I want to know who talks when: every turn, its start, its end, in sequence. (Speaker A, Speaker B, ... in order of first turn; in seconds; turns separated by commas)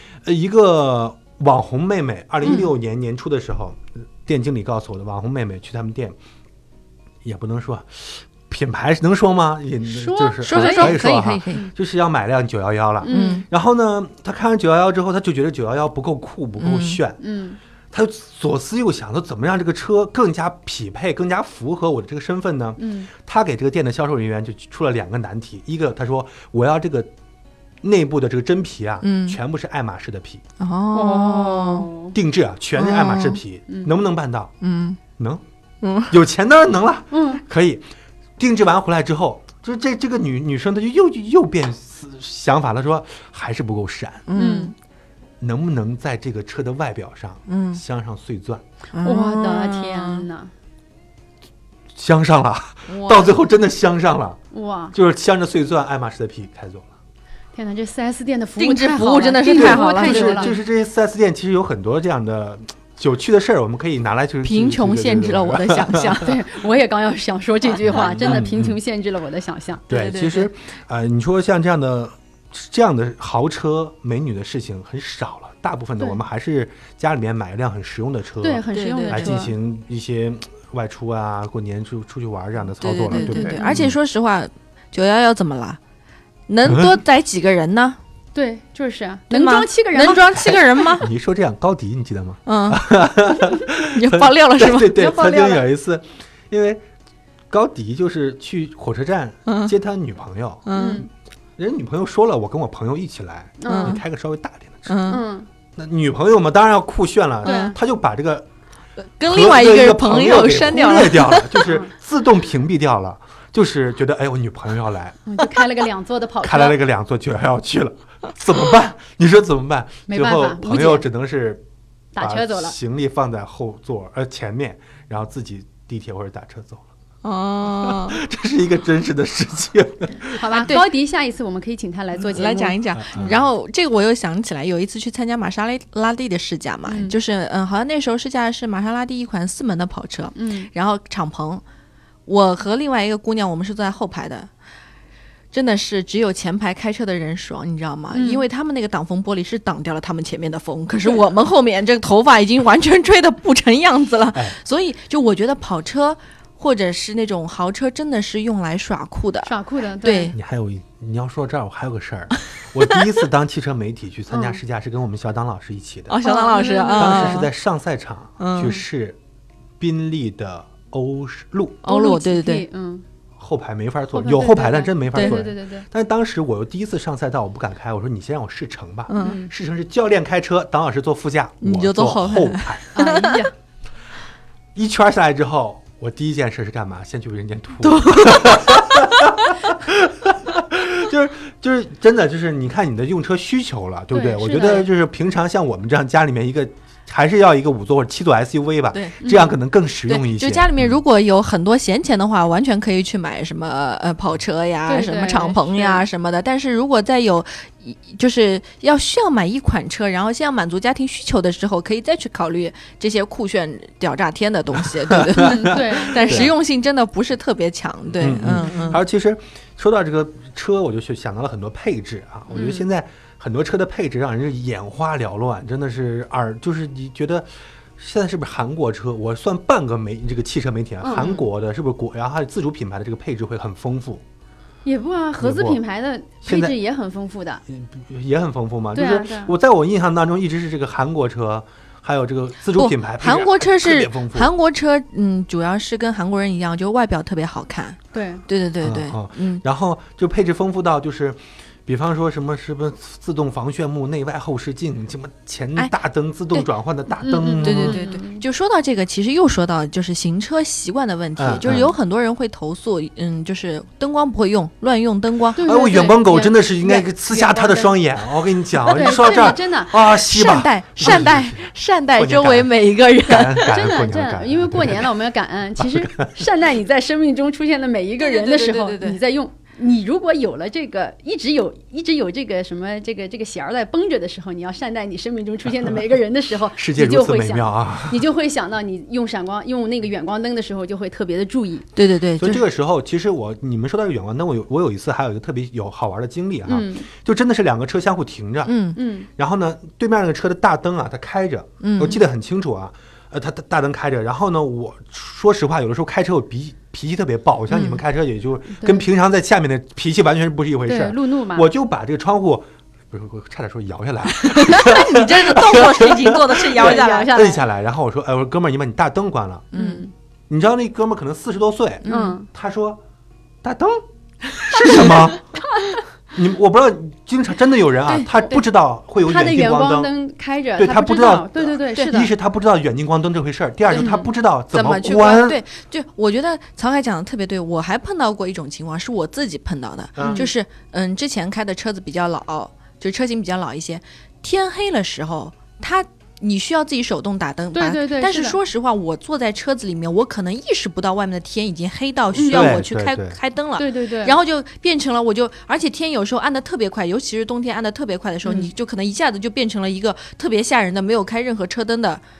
Speaker A: 0.2-6.2, Speaker B: 2.4-2.7, Speaker A: 7.2-17.2, Speaker B: 9.9-11.0, Speaker C: 10.4-11.7, Speaker B: 13.0-13.4, Speaker C: 13.1-13.4, Speaker C: 16.6-17.0, Speaker B: 17.2-17.6, Speaker A: 17.9-27.1, Speaker B: 22.8-23.1, Speaker A: 27.8-30.4, Speaker C: 29.0-29.4, Speaker C: 30.6-31.9, Speaker B: 30.9-32.2, Speaker A: 32.1-34.5, Speaker C: 32.8-33.4, Speaker B: 33.7-33.9, Speaker C: 34.6-35.0, Speaker A: 35.2-35.4, Speaker C: 35.8-36.1, Speaker A: 36.1-37.9, Speaker B: 37.1-37.4, Speaker A: 38.4-44.3, Speaker C: 44.3-44.7, Speaker B: 44.4-44.7, Speaker A: 45.4-48.6, Speaker C: 47.5-47.8, Speaker C: 48.9-50.3, Speaker B: 49.0-50.5, Speaker A: 51.9-54.4, Speaker C: 52.9-53.3, Speaker B: 54.5-55.0, Speaker A: 54.9-56.9, Speaker B: 57.5-60.5, Speaker C: 58.6-60.6, Speaker A: 59.5-66.2, Speaker C: 64.4-66.3, Speaker B: 66.2-69.8, Speaker A: 67.8-68.8, Speaker C: 67.9-68.2, Speaker A: 69.9-84.0, Speaker C: 69.9-70.5, Speaker B: 78.4-79.5, Speaker C: 78.7-79.4, Speaker C: 82.8-85.8, Speaker B: 83.1-83.8, Speaker C: 86.5-88.0, Speaker A: 86.7-86.9, Speaker B: 88.3-90.9, Speaker C: 89.3-91.1, Speaker A: 90.4-96.8, Speaker C: 92.5-92.9, Speaker C: 93.9-95.1, Speaker B: 95.0-95.6, Speaker A: 97.5-100.7, Speaker C: 99.5-99.7, Speaker C: 100.7-101.1, Speaker B: 100.8-101.1, Speaker A: 101.6-105.0, Speaker B: 103.6-104.0, Speaker C: 103.7-104.0, Speaker C: 104.9-105.2, Speaker B: 105.1-105.5, Speaker A: 105.8-108.5, Speaker C: 107.4-107.8, Speaker B: 107.4-107.8, Speaker C: 109.0-111.6, Speaker A: 109.2-115.2, Speaker B: 111.7-111.9, Speaker B: 115.3-116.8, Speaker A: 116.4-121.6, Speaker B: 120.1-121.1, Speaker B: 122.2-122.8, Speaker A: 122.2-126.9, Speaker C: 127.2-128.2, Speaker A: 127.7-130.7, Speaker B: 130.3-132.8, Speaker C: 130.5-130.9, Speaker C: 132.3-141.6, Speaker A: 132.9-133.4, Speaker B: 136.9-137.2, Speaker B: 140.3-140.7, Speaker C: 142.3-144.5, Speaker C: 145.5-160.3, Speaker B: 148.1-148.4, Speaker B: 159.4-160.3, Speaker A: 160.3-166.2, Speaker B: 164.3-164.6, Speaker C: 166.1-167.5, Speaker B: 166.2-167.4, Speaker A: 167.0-169.2, Speaker C: 168.4-168.8, Speaker A: 169.8-171.8, Speaker C: 171.8-172.7, Speaker B: 171.9-173.0, Speaker A: 173.4-182.9, Speaker B: 174.1-175.9, Speaker C: 175.1-175.4, Speaker C: 179.1-179.4, Speaker B: 179.2-179.5, Speaker C: 181.6-183.5, Speaker B: 182.9-183.5, Speaker A: 184.8-201.0, Speaker C: 187.8-189.3, Speaker B: 194.1-194.9, Speaker C: 198.9-199.2, Speaker B: 199.2-199.6, Speaker C: 200.1-219.0, Speaker B: 204.9-206.0, Speaker A: 215.1-216.5, Speaker B: 215.5-216.5, Speaker A: 218.2-234.2, Speaker B: 218.5-219.0, Speaker B: 222.5-222.9, Speaker B: 231.0-231.4, Speaker B: 234.8-237.6, Speaker A: 235.4-235.8, Speaker A: 236.5-236.8, Speaker A: 237.7-244.5, Speaker B: 238.9-239.5, Speaker C: 242.8-249.6, Speaker B: 248.1-248.4, Speaker A: 248.8-258.0, Speaker B: 257.2-258.4, Speaker C: 257.6-265.6, Speaker A: 261.4-261.9, Speaker B: 265.6-268.0, Speaker A: 265.6-275.1, Speaker B: 268.9-270.0, Speaker C: 270.2-273.7, Speaker B: 273.6-291.9, Speaker A: 275.8-276.3, Speaker C: 278.2-279.2, Speaker A: 286.8-288.2, Speaker C: 291.9-292.6, Speaker A: 292.4-298.8, Speaker B: 296.7-297.1, Speaker C: 298.6-299.0, Speaker B: 299.0-299.3, Speaker A: 299.4-319.7, Speaker C: 301.8-302.2, Speaker C: 307.7-308.0, Speaker B: 308.8-309.1, Speaker B: 310.9-311.7, Speaker C: 314.4-317.4, Speaker B: 316.6-317.6, Speaker C: 319.7-320.1, Speaker B: 319.7-320.1, Speaker A: 320.5-323.0, Speaker C: 322.0-322.4, Speaker B: 322.1-322.5, Speaker A: 323.6-324.0, Speaker A: 324.6-325.5, Speaker C: 324.9-325.1, Speaker A: 326.3-330.1, Speaker C: 328.1-328.6, Speaker B: 329.2-332.3, Speaker A: 330.8-335.6, Speaker C: 333.9-362.2, Speaker B: 333.9-334.3, Speaker A: 340.2-340.4, Speaker B: 340.2-340.5, Speaker B: 347.7-348.6, Speaker A: 352.4-353.4, Speaker B: 352.4-352.8, Speaker B: 353.8-354.4, Speaker B: 358.4-358.7